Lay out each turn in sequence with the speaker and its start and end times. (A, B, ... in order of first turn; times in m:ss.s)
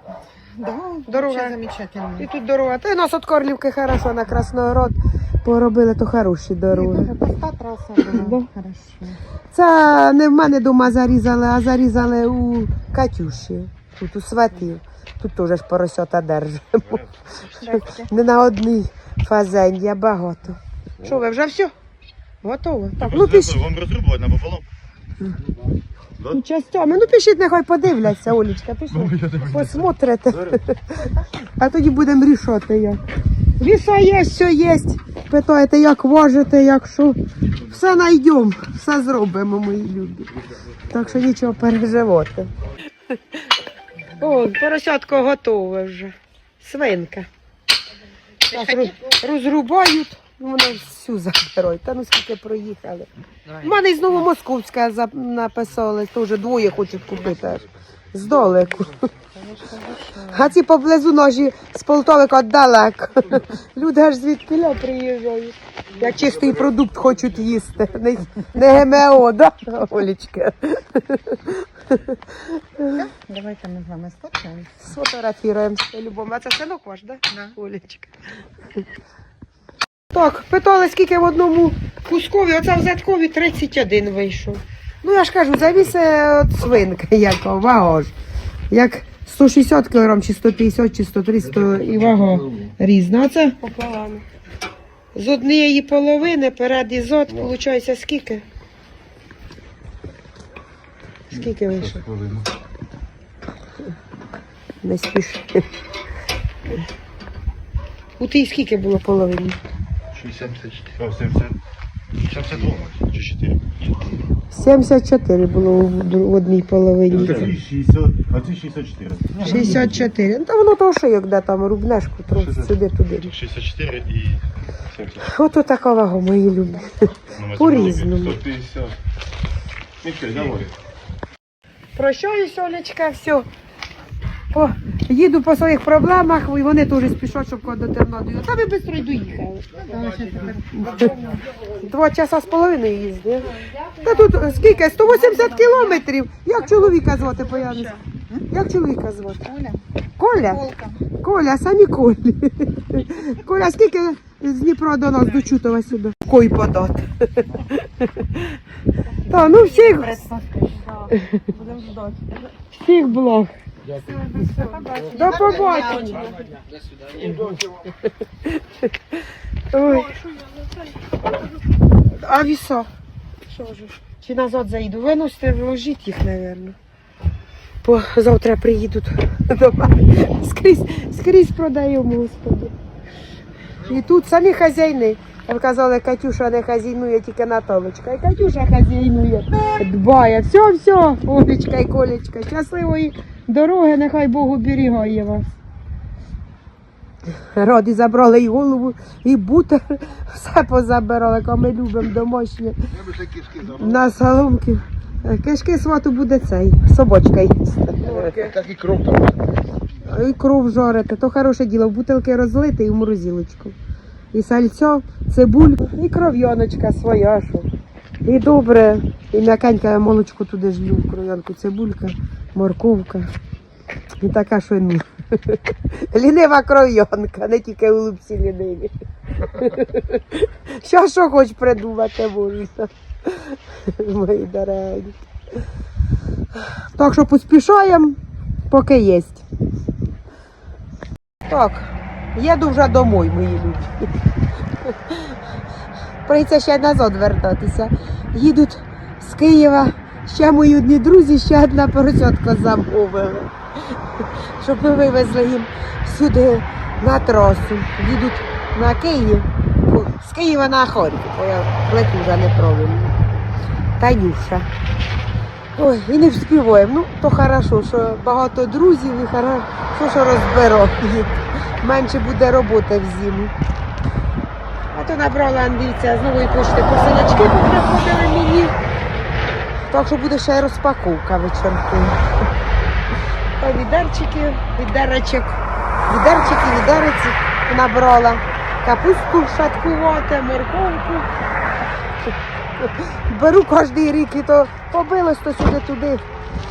0:00.6-0:02.3 A
0:01.0-0:01.6 B
0:02.2-0:07.1 B
0:06.7-0:09.2 A
0:08.0-0:08.5 B
0:09.5-0:21.7 B
0:17.6-0:18.0 A
0:22.4-0:23.7 B
0:23.0-0:24.6 C
0:26.2-0:33.0 B
0:33.6-0:40.3 B
0:40.9-0:42.5 B
0:44.2-0:47.3 B
0:48.4-0:59.1 B
0:59.3-1:00.5 A
1:00.3-1:13.0 B
1:12.9-1:14.7 A
1:14.8-1:18.1 B
1:20.1-1:28.1 B
1:28.7-1:33.6 B
1:33.6-1:34.2 A
1:35.1-1:38.4 B
1:41.3-1:42.1 B
1:41.9-1:42.5 C
1:44.8-1:45.6 B
1:48.2-1:49.6 B
1:50.1-1:51.6 C
1:52.2-1:54.1 C
1:54.5-1:57.6 B
1:57.1-2:00.0 C
1:59.4-2:03.4 B
2:02.4-2:02.7 C
2:03.3-2:05.3 C
2:05.2-2:08.4 B
2:07.4-2:08.9 C
2:10.0-2:10.7 C
2:12.0-2:13.5 B
2:14.5-2:19.7 B
2:19.8-2:21.4 A
2:20.8-2:21.2 B
2:21.7-2:29.5 B
2:29.4-2:29.8 A
2:30.2-2:38.5 B
2:30.5-2:31.0 A
2:39.2-2:42.3 A
2:39.3-2:40.3 B
2:41.1-2:41.5 B
2:42.7-2:43.5 B
2:43.9-2:46.6 A
2:45.0-2:46.3 B
2:47.1-2:47.8 B
2:48.4-2:48.9 B
2:49.7-2:50.3 B
2:50.3-2:50.7 A
2:52.1-2:52.9 B
2:53.5-2:56.8 B
2:57.8-3:02.7 B
3:03.8-3:15.5 B
3:17.3-3:22.8 B
3:23.6-3:28.6 B
3:30.0-3:33.8 B
3:34.3-3:37.7 B
3:38.2-3:43.3 B
3:44.2-3:55.2 B
3:56.5-3:58.2 B
3:58.7-3:59.4 B
4:01.4-4:04.1 B
4:04.8-4:05.4 B
4:06.2-4:23.2 B
4:24.0-4:24.7 B
4:25.8-4:33.5 B
4:34.9-4:38.8 B
4:39.9-4:42.2 B
4:43.6-4:51.3 B
4:52.2-4:56.2 B